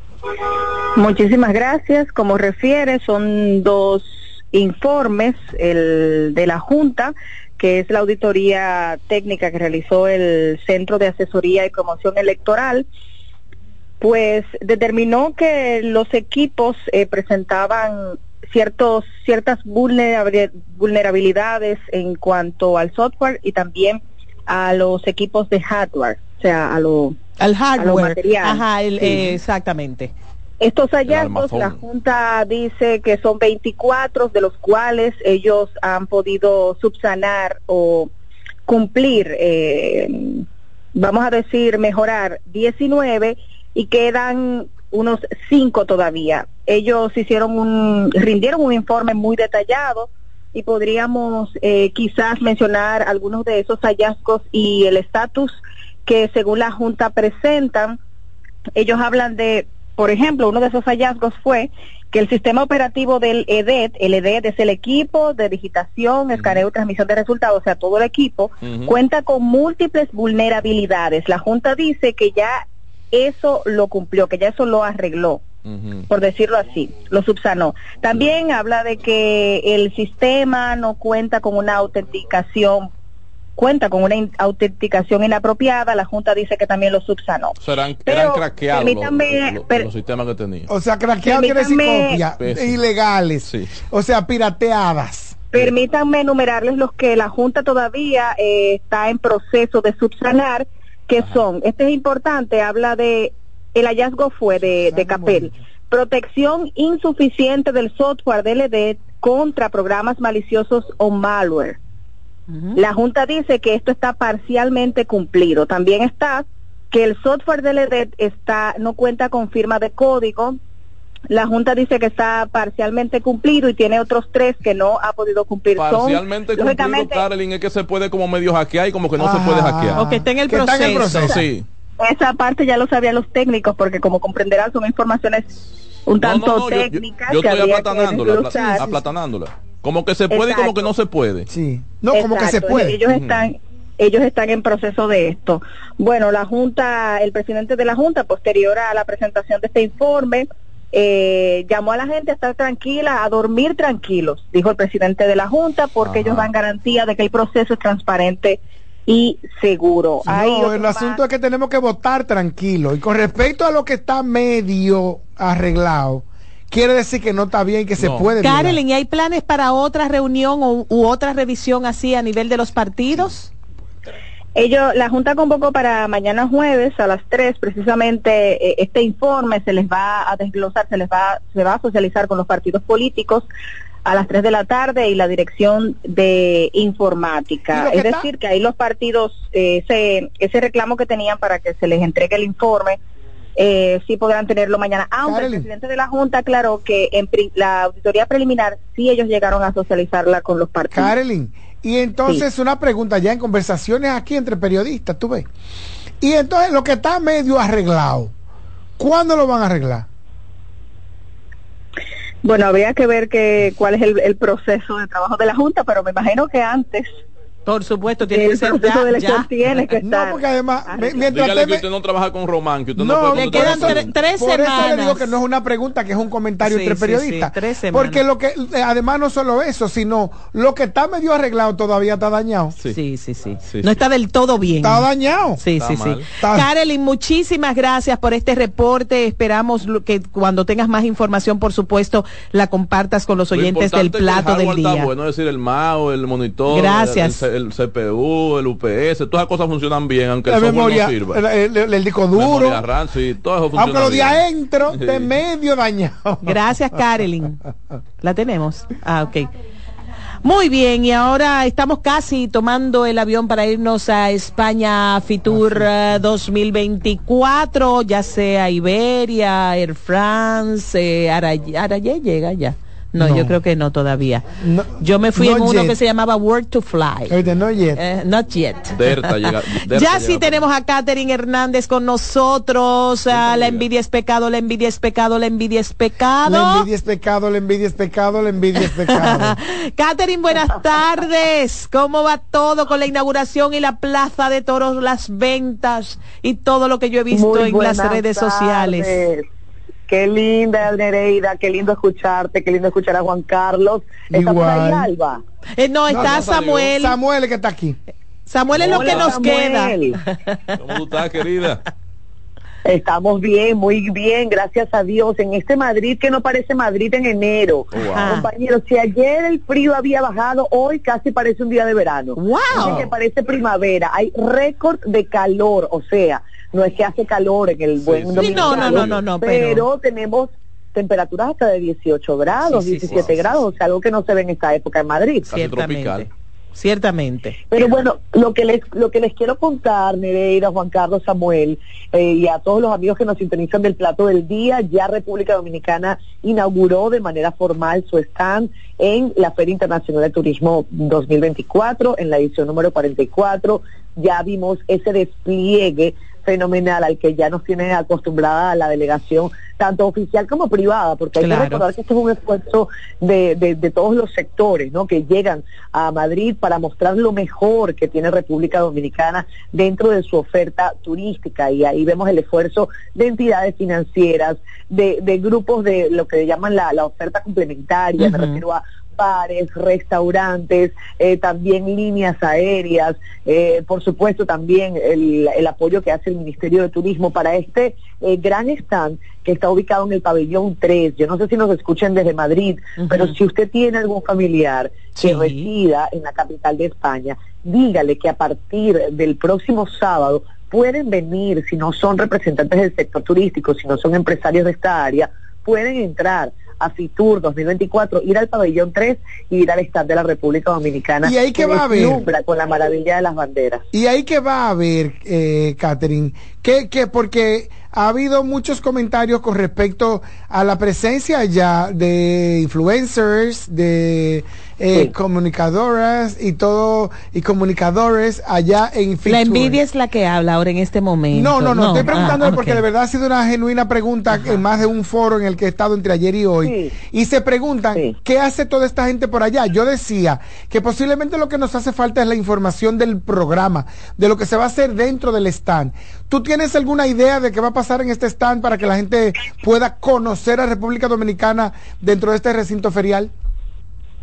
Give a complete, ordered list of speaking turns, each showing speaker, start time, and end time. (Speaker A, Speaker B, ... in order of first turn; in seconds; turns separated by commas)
Speaker A: 1.0-12.9, Speaker A: 14.0-27.2, Speaker B: 27.4-30.1, Speaker A: 27.8-28.6, Speaker A: 30.6-38.1, Speaker C: 31.1-31.8, Speaker A: 38.7-40.4, Speaker A: 41.0-58.0, Speaker A: 58.8-72.6, Speaker C: 66.3-66.7, Speaker C: 68.6-69.0, Speaker A: 73.1-75.5, Speaker C: 75.7-76.1, Speaker A: 76.1-82.9, Speaker A: 83.6-87.5, Speaker C: 87.6-90.7, Speaker A: 88.1-89.9, Speaker D: 90.7-95.5, Speaker A: 91.2-92.2, Speaker C: 92.4-92.8, Speaker C: 93.4-93.7, Speaker A: 95.5-111.8, Speaker D: 104.8-105.6, Speaker B: 112.5-112.8, Speaker A: 112.8-120.6, Speaker A: 121.3-127.2, Speaker C: 125.8-130.1, Speaker D: 129.2-131.4, Speaker B: 130.0-131.3, Speaker C: 131.0-131.7, Speaker A: 132.0-135.5, Speaker A: 136.1-138.9, Speaker C: 136.2-141.5, Speaker A: 140.3-140.9, Speaker D: 141.5-143.0, Speaker A: 142.1-161.2, Speaker C: 143.1-143.5, Speaker C: 156.0-156.5, Speaker D: 160.2-168.8, Speaker C: 168.0-168.3, Speaker B: 168.4-173.5, Speaker A: 174.6-183.4, Speaker A: 184.1-193.0, Speaker D: 187.7-188.3, Speaker A: 193.6-201.1, Speaker D: 195.2-195.7, Speaker D: 200.9-205.5, Speaker D: 206.2-208.3, Speaker D: 209.0-210.1, Speaker A: 212.4-217.1, Speaker B: 217.7-219.5, Speaker A: 218.3-221.2, Speaker D: 220.0-221.8, Speaker C: 221.2-224.1, Speaker D: 223.0-232.7, Speaker B: 223.3-225.3, Speaker B: 226.6-228.2, Speaker B: 232.8-245.1, Speaker C: 233.6-234.0, Speaker D: 234.8-235.6, Speaker C: 235.8-236.3, Speaker D: 236.4-236.7, Speaker C: 243.5-251.4, Speaker B: 246.7-247.4, Speaker D: 250.5-252.8, Speaker C: 252.3-255.3, Speaker D: 253.8-256.6, Speaker B: 256.4-257.6, Speaker B: 258.2-259.5, Speaker B: 260.4-277.4, Speaker D: 265.5-265.8, Speaker D: 273.2-273.6, Speaker D: 274.6-276.0, Speaker D: 277.3-278.0, Speaker B: 277.9-286.9, Speaker C: 278.9-280.7, Speaker C: 283.3-283.9, Speaker D: 286.4-289.5, Speaker B: 288.8-299.2, Speaker E: 297.3-299.4, Speaker E: 300.1-305.4, Speaker D: 304.3-305.1, Speaker B: 305.8-307.2, Speaker D: 306.1-306.4, Speaker C: 306.1-306.9, Speaker D: 306.9-308.0, Speaker B: 308.5-310.6, Speaker C: 308.7-309.4, Speaker E: 308.9-310.2, Speaker C: 310.8-311.8, Speaker E: 312.9-335.5, Speaker C: 317.9-318.4, Speaker B: 318.1-318.5, Speaker B: 322.4-323.1, Speaker C: 328.0-329.2, Speaker B: 328.4-329.9, Speaker B: 332.6-333.4, Speaker C: 333.1-333.5, Speaker C: 335.5-336.3, Speaker B: 335.5-337.6, Speaker E: 337.7-413.8, Speaker B: 361.4-361.9, Speaker B: 378.2-378.6, Speaker B: 393.0-393.3, Speaker B: 395.1-395.7, Speaker D: 411.2-412.2, Speaker D: 413.9-429.8, Speaker B: 429.2-432.8, Speaker D: 431.3-453.3, Speaker B: 434.3-434.6, Speaker E: 436.6-436.9